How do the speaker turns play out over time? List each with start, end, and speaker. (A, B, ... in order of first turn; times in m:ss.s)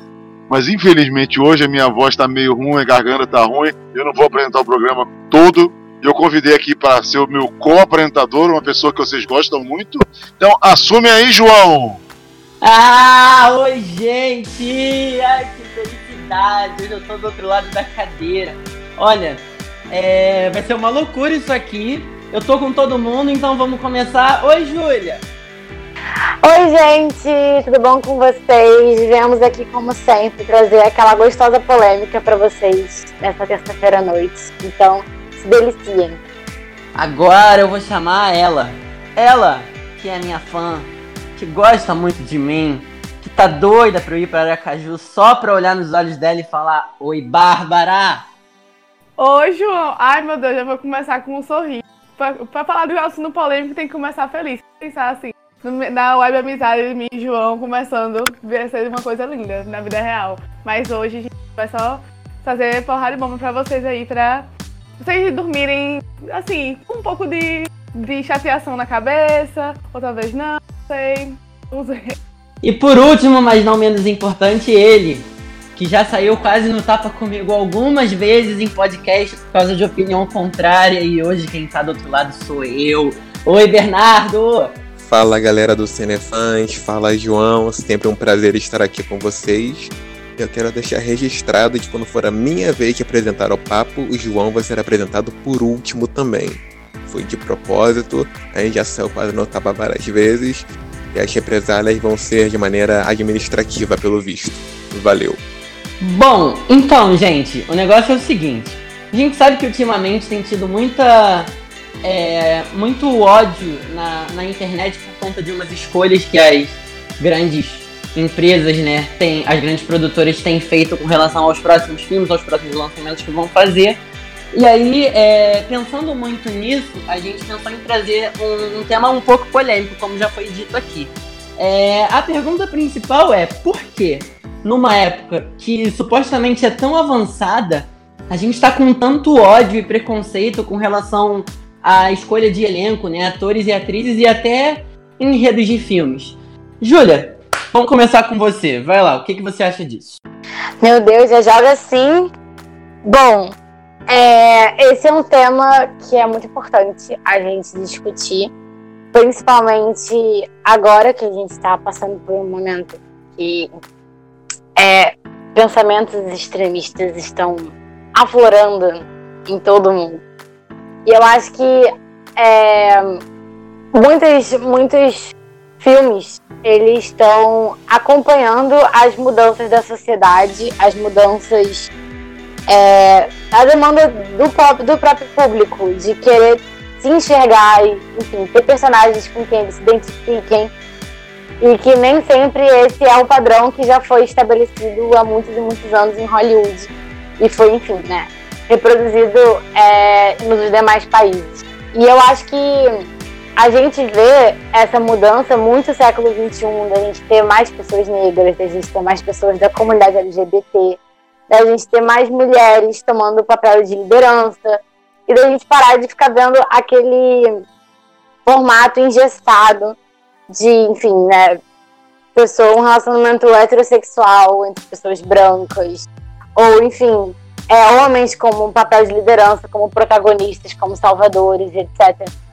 0:00.5-0:12.0 A
0:12.6-0:25.2 B
0:26.4-0:36.2 C
0:37.0-0:48.2 B
0:49.2-1:12.2 D
1:12.6-1:24.8 B
1:25.0-1:45.4 E
1:46.0-1:51.5 B
1:52.0-2:04.0 B
2:04.5-2:30.2 B
2:30.8-2:32.3 C
2:33.0-2:33.5 C
2:34.1-2:38.5 C
2:39.1-2:43.7 C
2:44.8-2:50.2 C
2:51.1-2:51.9 C
2:52.4-2:53.2 C
2:53.9-3:01.9 C
3:02.7-3:10.7 C
3:11.6-3:23.0 C
3:23.6-3:34.8 C
3:35.3-3:37.6 C
3:38.5-3:40.0 C
3:40.5-3:41.6 C
3:42.3-3:52.3 C